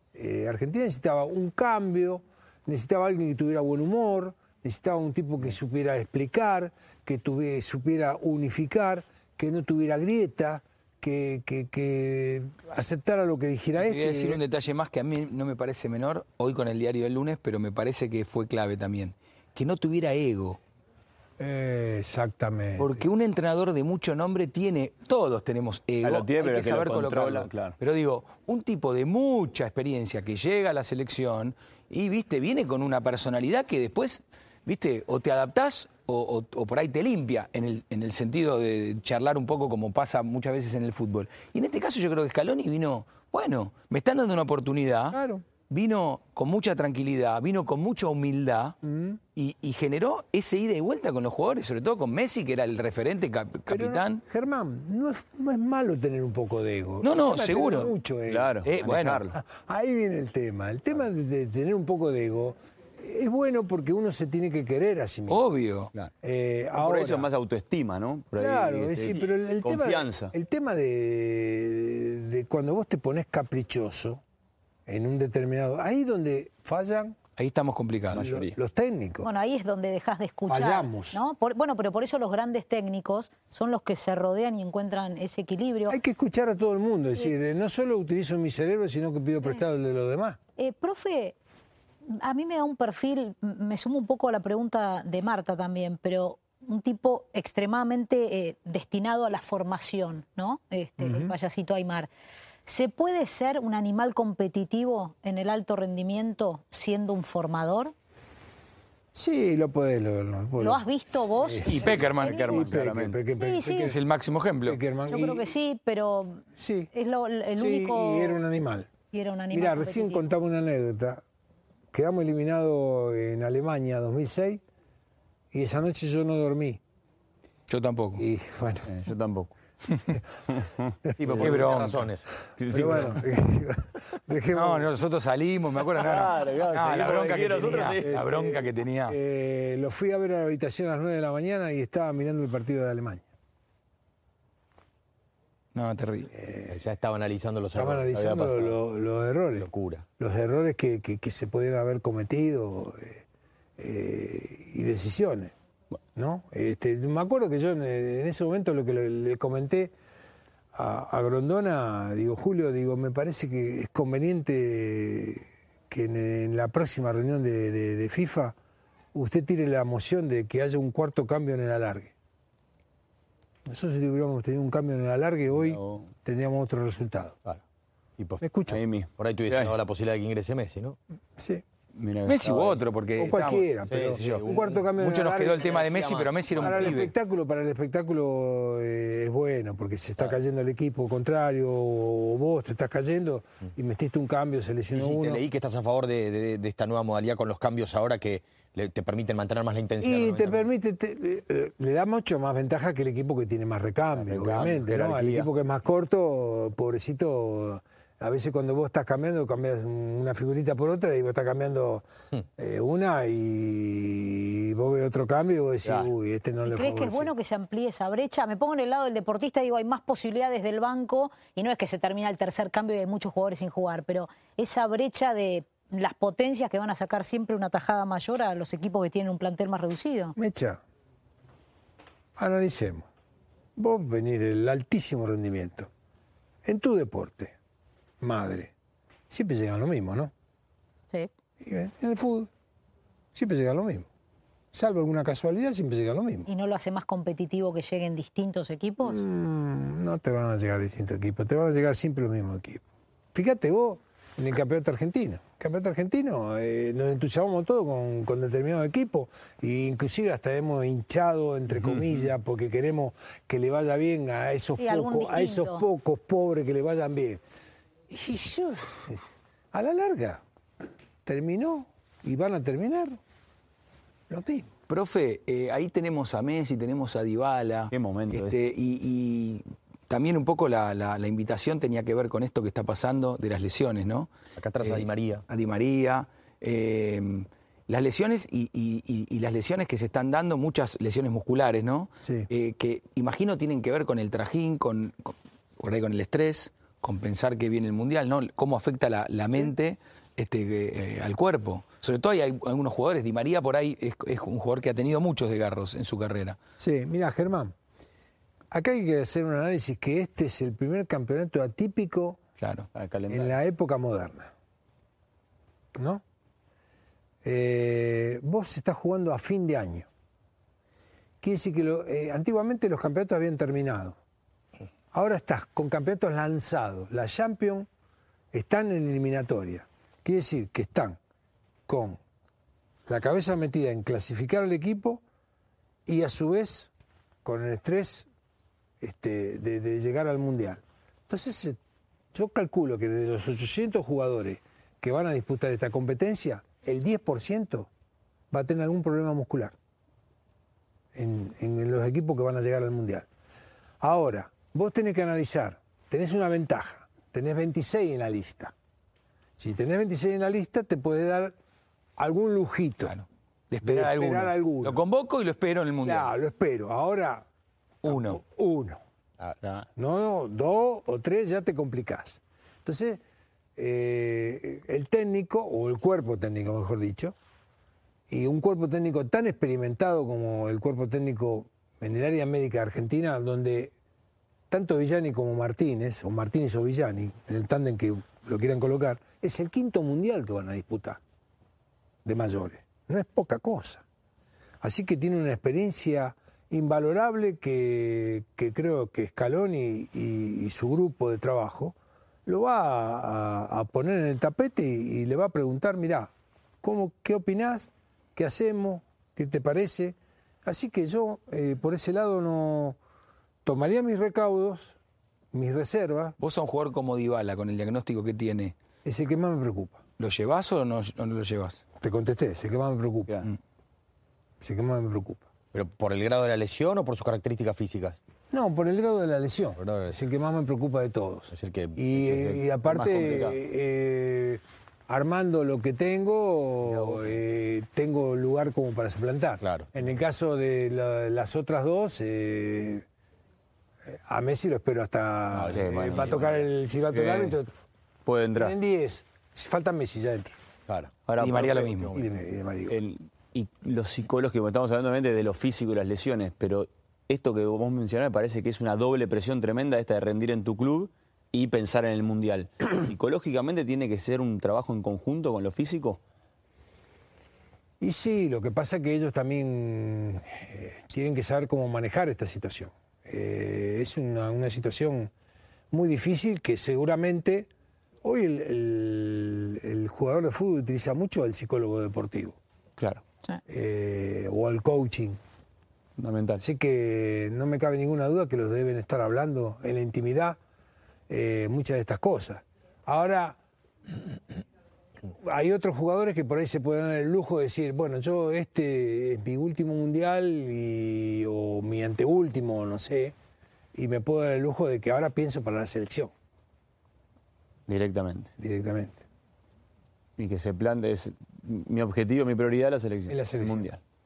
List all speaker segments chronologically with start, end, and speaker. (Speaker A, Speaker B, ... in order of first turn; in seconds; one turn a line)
Speaker A: 0.1-14.4
Speaker B: 13.8-20.6
Speaker A: 21.4-23.0
Speaker B: 22.8-45.2
Speaker C: 26.0-27.8
Speaker A: 45.1-45.5
Speaker B: 45.7-48.8
Speaker A: 48.8-49.2
Speaker B: 49.4-54.2
Speaker A: 53.7-58.6
Speaker B: 57.0-57.9
Speaker C: 58.3-59.4
Speaker B: 58.6-59.3
Speaker A: 59.3-65.4
Speaker B: 65.3-65.9
Speaker A: 66.2-67.3
Speaker C: 66.8-70.3
Speaker A: 68.3-74.2
Speaker A: 74.9-77.2
Speaker B: 77.4-78.3
Speaker C: 78.1-78.6
Speaker A: 78.1-79.3
Speaker D: 79.2-86.0
Speaker A: 80.5-81.2
Speaker A: 85.9-90.4
Speaker D: 90.6-91.4
Speaker D: 92.1-102.1
Speaker A: 101.0-101.3
Speaker D: 102.7-107.9
Speaker A: 109.1-114.0
Speaker D: 110.6-112.7
Speaker C: 111.7-113.2
Speaker B: 111.7-112.6
Speaker D: 113.3-114.0
Speaker B: 113.8-114.8
Speaker A: 114.7-115.5
Speaker D: 115.1-118.4
Speaker A: 116.5-116.9
Speaker A: 117.6-118.9
Speaker D: 119.1-120.3
Speaker A: 119.5-121.2
Speaker A: 121.9-124.6
Speaker A: 125.5-126.8
Speaker B: 127.7-128.2
Speaker A: 128.2-128.9
Speaker C: 128.9-129.5
Speaker C: 130.5-131.5
Speaker A: 131.1-131.5
Speaker E: 131.2-132.3
Speaker B: 131.4-132.1
Speaker C: 132.6-133.2
Speaker A: 132.7-134.9
Speaker B: 134.5-139.2
Speaker C: 136.0-138.1
Speaker A: 138.0-143.3
Speaker B: 145.7-146.3
Speaker A: 146.3-146.8
Speaker E: 146.7-148.1
Speaker A: 147.8-153.2
Speaker C: 148.1-148.8
Speaker E: 149.6-150.1
Speaker A: 153.8-155.5
Speaker A: 156.2-159.9
Speaker A: 160.7-168.6
Speaker A: 169.1-172.1
Speaker A: 173.7-177.4
Speaker C: 175.6-176.1
Speaker A: 178.4-178.8
Speaker C: 178.7-179.8
Speaker E: 179.2-181.0
Speaker A: 181.4-181.6
Speaker C: 181.9-182.8
Speaker B: 182.3-187.1
Speaker A: 183.2-185.8
Speaker E: 183.9-184.8
Speaker E: 185.6-187.0
Speaker A: 186.6-195.4
Speaker E: 194.9-200.7
Speaker A: 200.0-212.1
Speaker C: 204.2-205.5
Speaker A: 212.6-217.3
Speaker C: 215.8-216.1
Speaker D: 216.7-230.4
Speaker A: 230.4-230.8
Speaker A: 232.4-233.1
Speaker A: 233.8-235.9
Speaker A: 236.7-237.6
Speaker A: 238.2-238.7
Speaker A: 239.3-240.3
Speaker A: 241.6-242.5
Speaker A: 243.3-244.1
Speaker A: 244.7-246.5
Speaker D: 246.5-249.2
Speaker A: 249.0-252.8
Speaker A: 253.3-267.4
Speaker D: 264.8-265.9
Speaker A: 268.1-270.4
Speaker A: 271.2-273.2
Speaker A: 274.3-274.7
Speaker B: 274.9-284.3
Speaker C: 277.9-278.6
Speaker E: 284.6-285.4
Speaker B: 284.8-306.6
Speaker A: 292.2-292.5
Speaker A: 306.8-307.8
Speaker A: 308.7-312.4
Speaker B: 312.6-312.9
Speaker C: 312.9-313.5
Speaker A: 313.3-314.5
Speaker A: 315.9-316.2
Speaker A: 317.4-320.1
Speaker A: 321.4-324.2
Speaker A: 325.1-327.9
Speaker A: 328.5-331.2
Speaker A: 331.9-332.2
Speaker A: 333.1-335.2
Speaker A: 336.1-336.9
Speaker A: 337.4-338.3
Speaker A: 339.0-341.8
Speaker A: 342.3-347.9
Speaker A: 348.5-349.7
Speaker A: 351.1-353.3
Speaker A: 354.0-358.7
Speaker A: 359.6-361.6
Speaker A: 362.2-363.1
Speaker B: 363.1-366.3
Speaker A: 363.8-365.0
Speaker A: 366.0-367.5
Speaker B: 368.0-368.4
Speaker A: 368.0-369.0
Speaker A: 370.0-373.2
Speaker A: 373.8-377.4
Speaker A: 378.3-383.9
Speaker A: 384.7-391.2
Speaker A: 392.2-394.1
Speaker A: 394.8-413.0
Speaker A: 413.6-415.0
Speaker A: 415.5-416.4
Speaker B: 416.4-418.8
Speaker A: 419.1-420.0
Speaker B: 420.2-421.8
Speaker A: 422.0-423.4
Speaker A: 424.6-425.4
Speaker E: 425.7-428.2
Speaker A: 428.5-443.1
Speaker E: 429.8-430.2
Speaker E: 431.5-432.0
Speaker C: 432.2-433.6
Speaker C: 436.9-437.3
Speaker E: 439.6-439.9
Speaker A: 444.1-447.7
Speaker E: 445.5-446.4
Speaker C: 445.7-446.6
Speaker C: 447.1-447.6
Speaker C: 448.2-448.8
Speaker A: 448.6-450.6
Speaker E: 450.9-451.1
Speaker C: 451.3-452.1
Speaker B: 451.4-452.1
Speaker E: 452.0-452.3
Speaker A: 452.1-453.0
Speaker C: 452.9-466.2
Speaker A: 468.0-475.3
Speaker A: 475.9-477.7
Speaker A: 478.2-482.6
Speaker C: 483.0-483.2
Speaker A: 483.7-485.4
Speaker C: 486.2-486.6
Speaker A: 486.6-490.6
Speaker A: 491.3-493.6
Speaker A: 495.3-503.4
Speaker A: 503.9-506.3
Speaker C: 507.9-508.5
Speaker A: 508.6-509.2
Speaker C: 510.4-514.0
Speaker A: 513.3-513.9